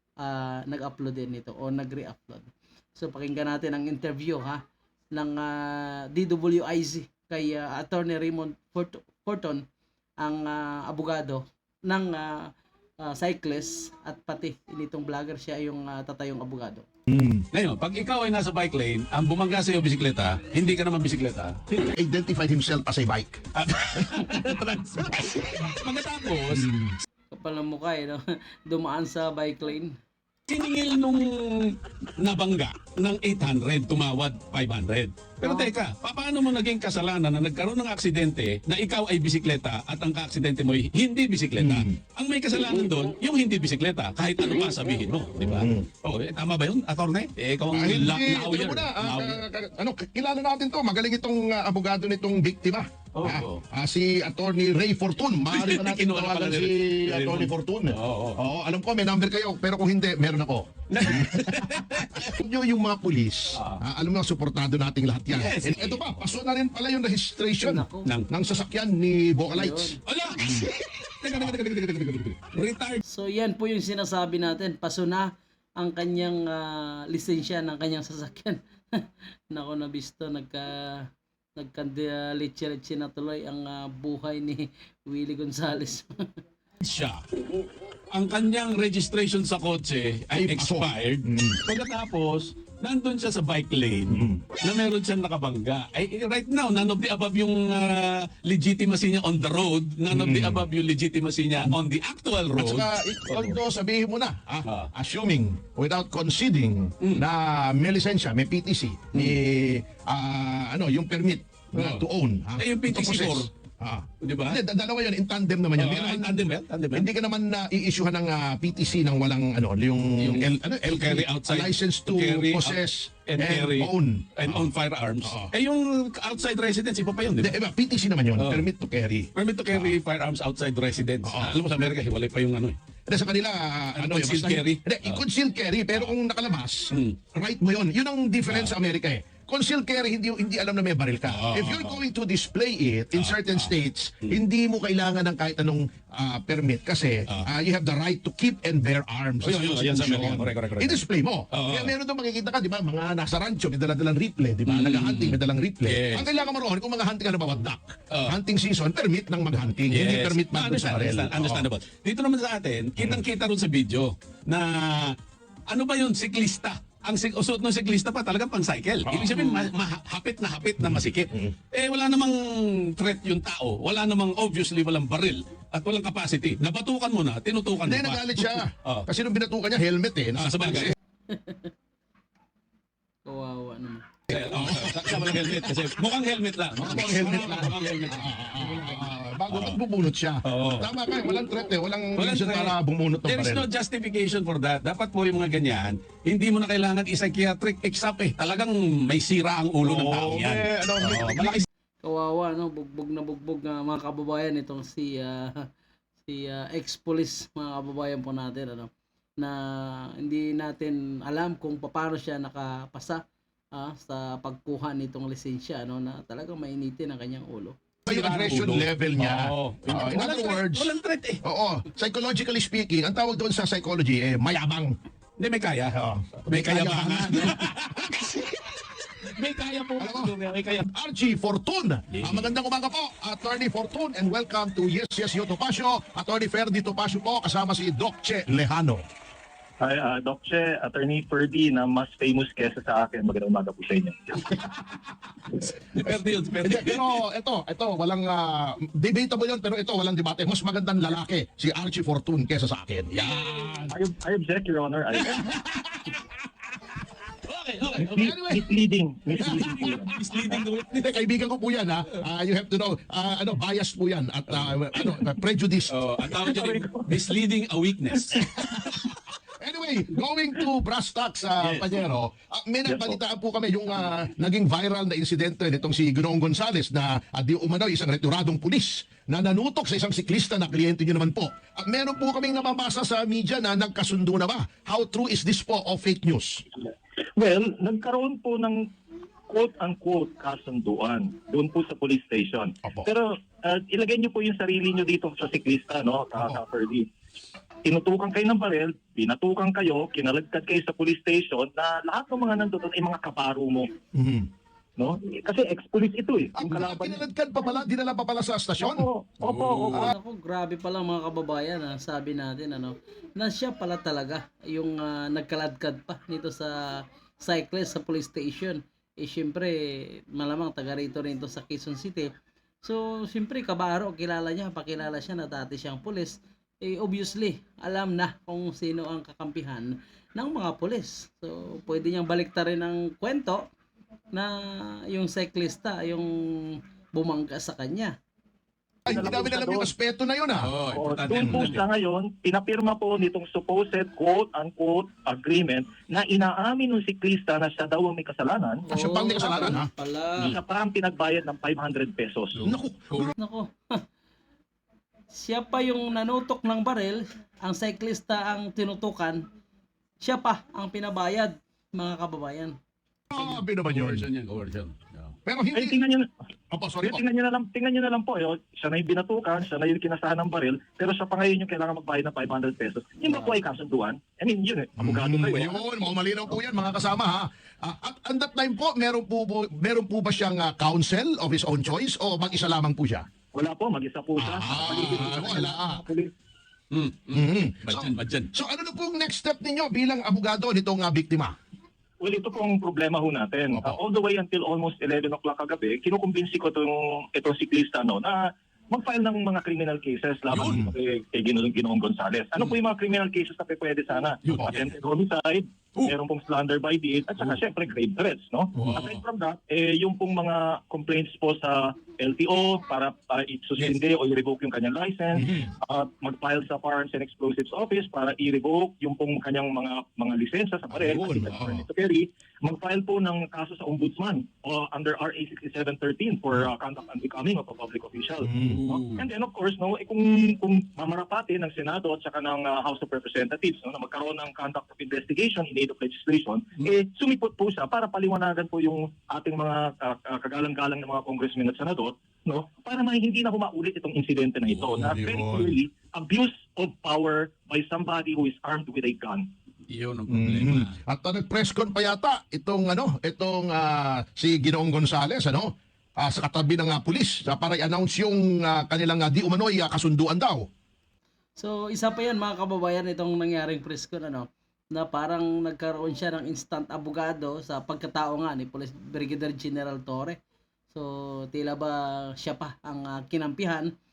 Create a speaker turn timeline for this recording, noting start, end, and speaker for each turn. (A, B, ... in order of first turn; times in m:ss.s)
0:00.2-0:04.6 A
0:05.1-0:09.6 A
0:10.2-0:12.5 A
0:13.0-0:16.8 A
0:17.1-0:17.4 B
0:17.5-0:21.6 C
0:21.8-0:23.4 B
0:23.6-0:26.7 C
0:26.5-0:26.9 B
0:27.3-0:29.9 A
0:30.5-0:49.4 C
0:35.4-0:35.7 A
0:41.6-0:41.9 B
0:45.4-0:45.9 B
0:47.7-1:10.0 B
0:53.1-0:53.6 C
0:55.5-0:58.4 C
1:00.9-1:02.3 C
1:05.3-1:06.0 C
1:07.6-1:08.1 A
1:09.5-1:10.0 A
1:10.0-1:13.0 C
1:13.0-1:26.1 A
1:26.8-1:27.2 C
1:28.1-1:43.6 C
1:30.4-1:31.6 B
1:34.1-1:34.4 B
1:40.1-1:40.6 B
1:42.6-2:04.7 B
1:49.1-1:49.4 C
1:51.7-1:52.0 C
1:52.6-1:53.5 C
1:54.2-1:54.6 C
1:55.8-1:57.1 C
2:00.2-2:07.5 C
2:05.2-2:05.5 B
2:07.4-2:10.0 B
2:08.4-2:08.6 C
2:09.3-2:12.8 C
2:11.2-2:11.6 B
2:13.1-2:41.6 B
2:13.9-2:15.2 C
2:18.5-2:18.7 C
2:21.3-2:22.0 C
2:23.1-2:23.7 C
2:29.4-2:31.9 C
2:34.6-2:36.2 C
2:39.9-2:45.2 C
2:45.7-2:59.0 C
2:49.0-2:49.4 B
2:49.4-2:49.7 A
2:50.8-2:51.5 B
2:57.8-3:00.9 B
3:00.4-3:00.9 C
3:01.3-3:01.7 A
3:03.2-3:04.0 A
3:04.3-3:05.6 B
3:04.3-3:09.8 C
3:06.8-3:13.7 B
3:10.4-3:10.9 C
3:12.2-3:12.7 C
3:13.2-3:21.6 C
3:19.8-3:21.6 B
3:22.0-3:25.6 A
3:26.2-3:33.2 A
3:33.7-3:37.8 A
3:38.1-3:40.9 B
3:38.1-3:41.4 C
3:41.4-3:45.0 B
3:45.4-3:50.9 C
3:45.9-3:47.8 B
3:50.0-3:50.3 B
3:50.9-3:59.0 B
3:52.1-3:52.4 C
3:59.8-4:04.6 D
4:05.5-4:07.2 C
4:06.6-4:13.1 B
4:13.1-4:13.9 C
4:13.9-4:15.4 D
4:15.2-4:16.2 C
4:17.4-4:18.4 C
4:18.0-4:20.1 D
4:18.2-4:18.6 B
4:19.3-4:21.2 C
4:19.4-4:19.9 B
4:21.0-4:25.9 B
4:25.9-4:28.6 C
4:26.3-4:27.3 D
4:29.6-4:46.6 B
4:31.6-4:31.8 C
4:47.4-4:48.8 D
4:49.5-4:57.1 D
4:57.8-5:03.9 D
5:04.1-5:04.5 B
5:05.0-5:07.1 D
5:06.5-5:09.1 B
5:08.8-5:10.0 D
5:09.4-5:10.1 C
5:10.0-5:22.3 A
5:22.8-5:33.6 A
5:34.3-5:38.1 A
5:39.0-5:40.7 B
5:39.1-5:39.9 D
5:40.6-5:41.8 C
5:40.9-5:48.9 D
5:41.3-5:41.6 B
5:48.8-5:50.6 A
5:48.9-5:49.9 B
5:50.5-5:52.6 D
5:52.6-5:53.3 C
5:52.6-5:53.3 B
5:53.4-5:54.0 A
5:55.3-5:59.4 A
6:00.2-6:02.7 A
6:03.3-6:04.3 B
6:03.3-6:05.3 C
6:05.4-6:06.0 B
6:05.7-6:06.3 D
6:06.7-6:07.2 B
6:07.0-6:15.9 D
6:15.0-6:23.2 B
6:23.5-6:26.3 D
6:24.4-6:26.0 B
6:26.9-6:28.5 C
6:27.3-6:31.5 B
6:32.2-7:29.5 D
6:40.5-6:40.9 C
6:44.4-6:45.0 C
6:48.7-6:49.2 C
6:55.4-6:55.7 B
7:00.9-7:01.8 B
7:08.4-7:08.8 B
7:08.6-7:09.3 C
7:24.7-7:25.1 C
7:25.0-7:25.7 B
7:29.9-7:30.9 C
7:30.3-7:40.7 B
7:41.6-7:50.4 A
7:50.9-7:53.9 A